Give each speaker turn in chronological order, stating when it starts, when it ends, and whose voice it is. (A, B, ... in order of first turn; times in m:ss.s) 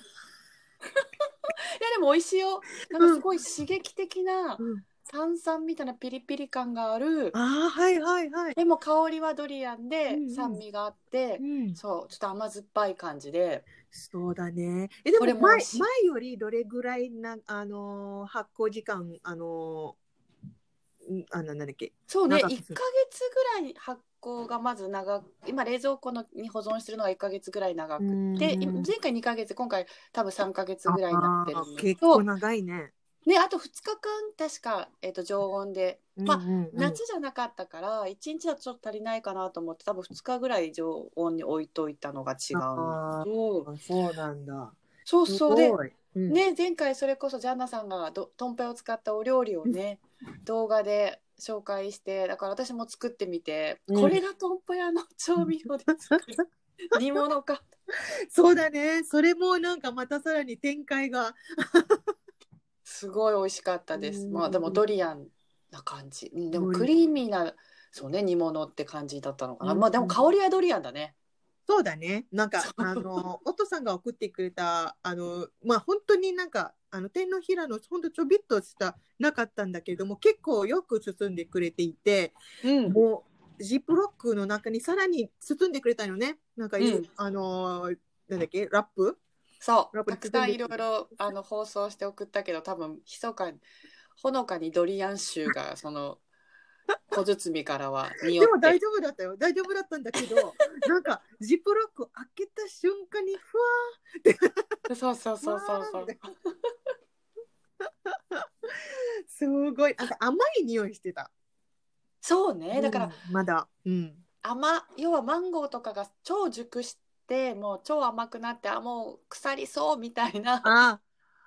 0:01.0-0:07.4 A
0:02.9-0:03.2 B
0:04.6-0:04.8 B
0:07.3-0:08.6 B
0:08.5-0:13.7 A
0:10.1-0:10.6 B
0:11.4-0:11.8 B
0:13.9-0:20.0 B
0:15.2-0:15.9 A
0:21.0-0:22.8 B
0:22.1-0:32.2 A
0:28.0-0:28.9 B
0:30.9-0:32.9 B
0:33.2-0:43.7 A
0:36.2-0:37.0 B
0:42.5-0:46.4 B
0:45.1-0:45.8 A
0:46.3-0:57.6 A
0:53.9-0:54.2 B
0:55.4-0:56.3 B
0:58.3-1:02.0 B
1:02.8-1:11.1 A
1:03.9-1:04.8 B
1:06.5-1:06.9 B
1:09.6-1:10.2 B
1:11.7-1:22.4 B
1:12.6-1:13.2 A
1:22.6-1:23.0 A
1:22.9-1:29.2 B
1:26.8-1:27.1 A
1:29.6-1:33.6 A
1:29.9-1:30.7 B
1:34.2-1:36.2 A
1:37.1-1:38.8 A
1:38.4-1:44.7 B
1:44.9-1:46.2 A
1:45.4-1:46.2 B
1:47.8-1:51.3 B
1:52.2-1:53.1 A
1:52.7-1:54.2 B
1:54.4-2:00.7 A
2:00.6-2:01.0 B